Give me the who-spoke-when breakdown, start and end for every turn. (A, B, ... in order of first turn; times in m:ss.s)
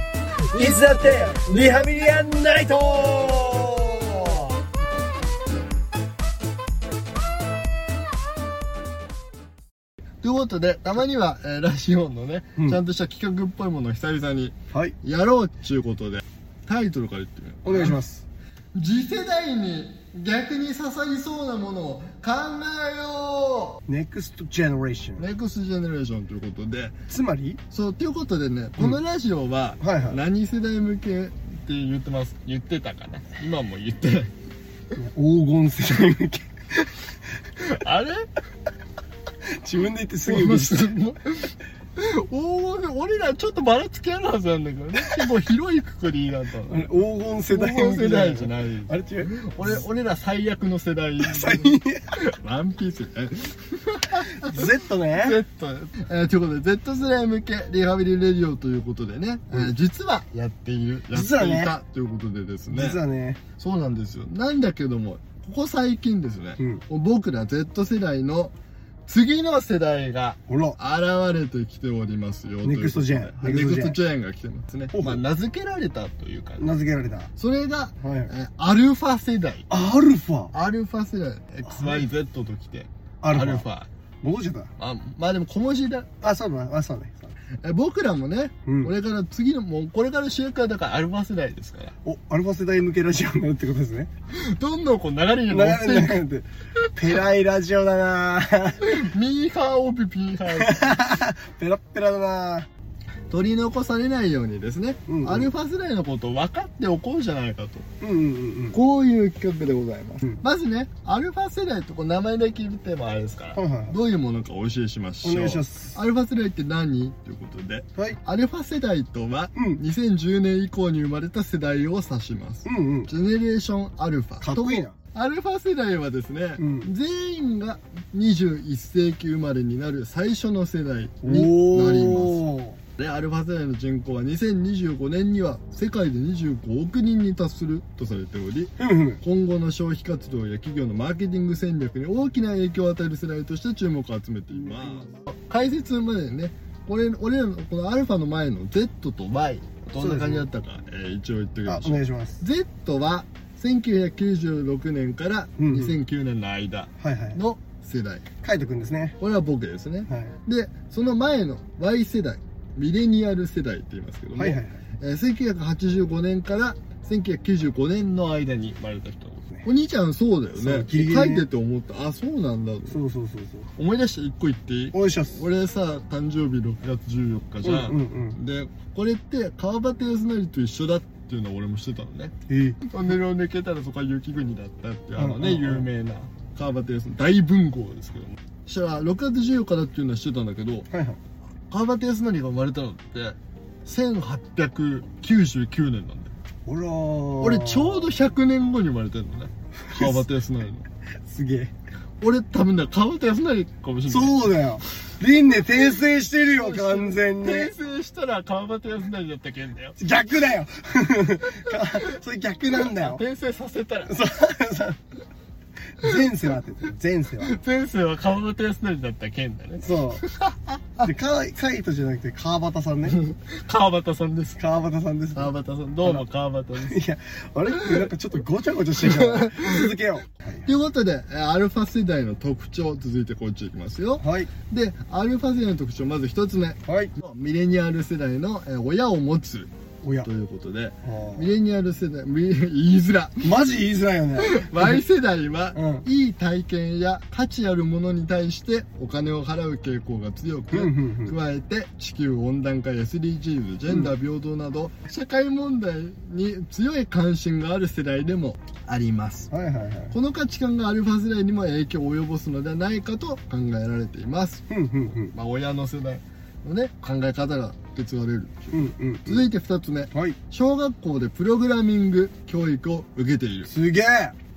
0:00.5-0:04.6 A
0:10.2-0:18.0 B
0:17.6-0:18.2 A
0:18.7-0:23.8 B
0:23.9-0:25.2 A
0:25.2-0:27.0 B
0:27.1-0:27.6 A
0:27.7-0:34.3 B
0:29.8-0:30.2 A
0:34.9-0:36.5 A
0:37.6-0:38.3 B
0:39.4-0:40.9 A
0:40.3-0:46.9 B
0:46.7-0:49.8 A
0:47.5-0:54.6 B
0:51.2-0:52.2 A
0:54.4-0:55.4 A
0:55.1-1:03.0 B
1:01.1-1:01.7 A
1:02.7-1:03.4 A
1:03.6-1:08.5 B
1:09.1-1:16.8 B
1:10.5-1:10.8 A
1:12.6-1:14.0 A
1:14.9-1:15.2 A
1:16.6-1:17.3 A
1:17.4-1:19.7 B
1:18.0-1:18.3 A
1:19.7-1:20.5 A
1:20.5-1:23.9 B
1:21.7-1:22.0 A
1:23.2-1:23.6 A
1:24.2-1:24.7 A
1:24.8-1:26.1 B
1:26.2-1:27.3 A
1:27.6-1:31.9 B
1:28.6-1:28.9 A
1:32.0-1:34.1 A
1:34.3-1:36.2 B
1:35.5-1:39.0 A
1:38.8-1:41.1 B
1:40.5-1:42.7 A
1:43.3-1:47.9 B
1:45.1-1:45.5 A
1:48.0-1:48.8 A
1:48.7-2:12.4 B
1:53.5-1:54.0 A
1:55.2-1:55.9 A
2:02.6-2:03.1 A
2:04.4-2:04.9 A
2:06.6-2:06.9 A
2:11.2-2:12.8 A
2:13.0-2:38.2 B
2:18.8-2:19.2 A
2:24.7-2:25.1 A
2:30.0-2:30.4 A
2:31.6-2:32.4 A
2:35.6-2:35.9 A
2:37.0-2:37.4 A
2:38.4-2:39.2 A
2:39.2-2:53.0 B
2:40.1-2:40.3 A
2:44.3-2:44.8 A
2:50.5-2:51.5 A
2:52.9-2:53.7 A
2:53.8-3:02.3 B
2:54.9-2:55.4 A
2:57.6-2:58.4 A
3:02.5-3:02.8 A
3:02.8-3:10.9 B
3:05.2-3:05.9 A
3:10.9-3:11.2 A
3:11.7-3:16.3 B
3:16.6-3:18.1 A
3:17.4-3:20.8 B
3:19.9-3:20.2 A
3:21.3-3:21.7 A
3:22.2-3:24.5 B
3:24.1-3:27.7 A
3:26.5-3:30.0 B
3:30.0-3:33.2 A
3:32.8-3:34.2 B
3:34.1-3:35.0 A
3:36.0-3:37.5 A
3:37.4-3:41.0 B
3:39.8-3:40.2 A
3:41.0-3:43.2 A
3:43.1-3:44.6 B
3:44.6-3:45.5 A
3:45.3-3:47.0 B
3:46.8-3:50.6 A
3:49.0-3:49.9 B
3:50.6-3:59.7 B
3:54.2-3:54.5 A
4:00.0-4:00.3 A
4:00.2-4:03.5 B
4:01.0-4:01.5 A
4:03.4-4:05.0 A
4:04.4-4:19.5 B
4:05.7-4:06.0 A
4:10.7-4:11.4 A
4:19.5-4:20.1 A
4:20.1-4:24.6 B
4:24.7-4:25.3 A
4:25.2-4:33.7 B
4:28.7-4:29.5 A
4:30.1-4:30.4 A
4:33.7-4:34.4 A